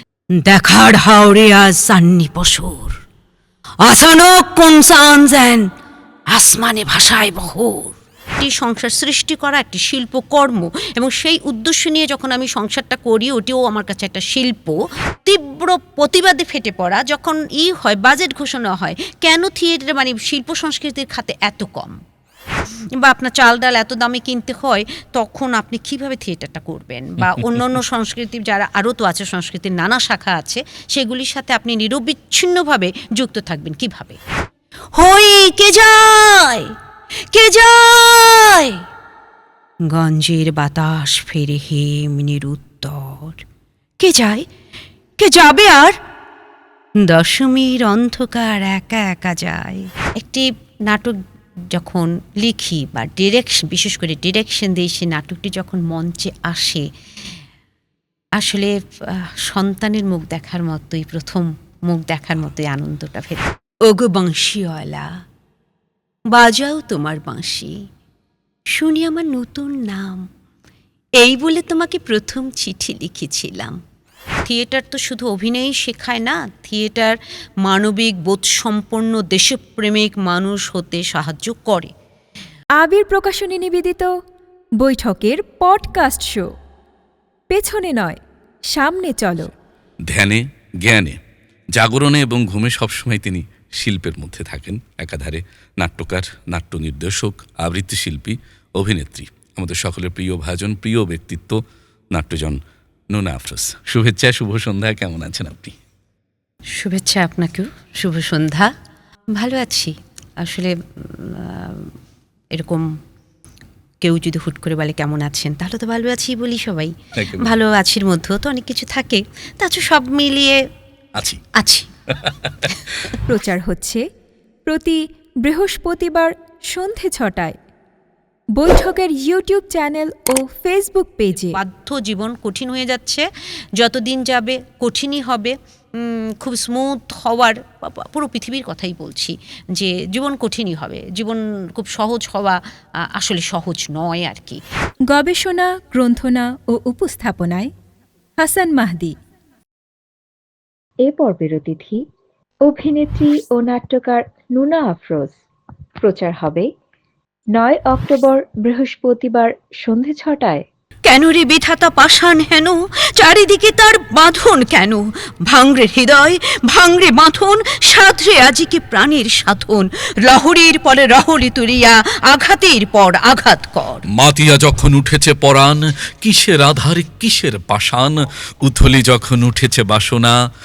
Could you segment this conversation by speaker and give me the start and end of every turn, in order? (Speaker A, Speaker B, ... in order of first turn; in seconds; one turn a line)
Speaker A: 0.3-3.0
Speaker A: 3.8-5.7
Speaker A: 6.3-22.0
Speaker A: 23.0-34.2
Speaker A: 34.9-36.7
Speaker A: 37.3-38.8
Speaker A: 39.9-43.4
Speaker A: 44.0-44.5
Speaker A: 45.2-46.0
Speaker A: 47.0-51.2
Speaker A: 51.7-56.9
Speaker A: 58.4-65.1
Speaker A: 66.3-67.8
Speaker A: 68.7-70.2
Speaker A: 71.2-73.8
Speaker A: 74.5-81.9
Speaker B: 82.8-84.1
Speaker B: 84.8-86.5
Speaker B: 87.5-88.2
Speaker B: 88.7-89.5
Speaker C: 90.1-91.2
Speaker C: 91.7-101.6
Speaker C: 102.1-102.6
Speaker C: 103.1-105.8
Speaker A: 106.8-108.7
Speaker A: 109.4-111.9
Speaker A: 112.5-112.9
Speaker A: 114.0-120.6
Speaker C: 117.2-117.5
Speaker C: 121.2-121.4
Speaker A: 121.5-121.9
Speaker C: 122.1-122.8
Speaker B: 123.2-124.0
Speaker B: 124.7-127.6
Speaker B: 128.6-131.6
Speaker A: 131.4-133.2
Speaker A: 133.8-142.6
Speaker A: 143.1-144.6
Speaker B: 145.1-147.7
Speaker B: 148.4-149.2
Speaker D: 151.0-152.0
Speaker D: 152.7-155.4
Speaker D: 156.0-156.7
Speaker D: 157.5-160.6
Speaker A: 161.1-174.0
Speaker C: 174.1-180.4